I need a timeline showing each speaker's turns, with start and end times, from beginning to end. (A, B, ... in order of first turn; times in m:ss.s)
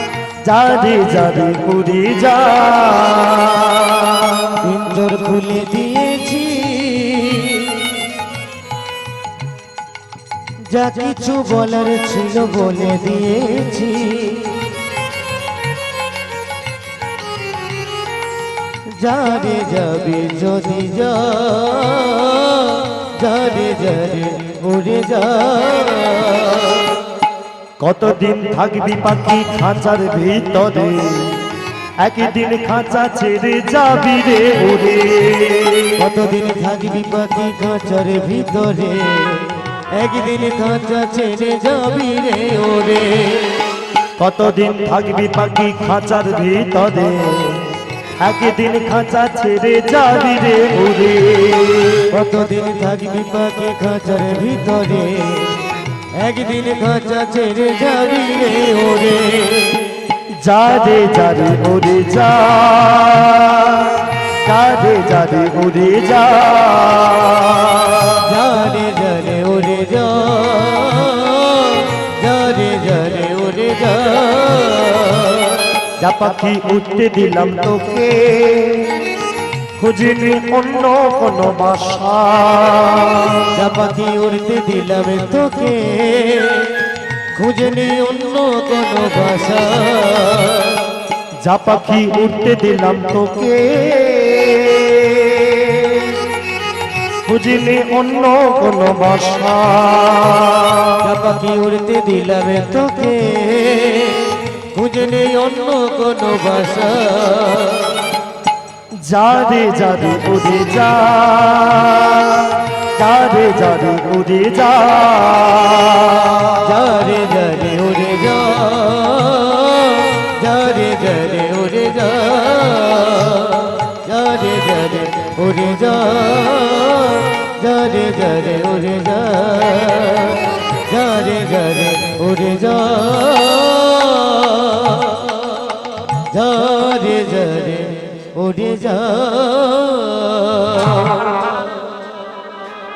0:00.4-0:04.5 A
0:04.6-0:08.1 B
0:10.7-0:14.8 B
0:19.0-0:26.9 B
0:27.8-0:31.3 A
0:32.0-0:36.0 A
0:36.0-0:43.6 B
0:44.2-0:47.6 A
0:48.2-0:52.0 A
0:52.1-0:55.6 B
0:56.2-0:59.9 B
1:00.4-1:08.2 A
1:08.2-1:15.6 B
1:16.0-1:19.0 A
1:19.8-1:23.4 A
1:23.5-1:30.8 B
1:31.4-1:36.1 A
1:37.2-1:40.9 A
1:41.0-1:48.0 B
1:49.0-1:56.5 A
1:56.6-2:15.3 B
2:16.3-2:21.6 B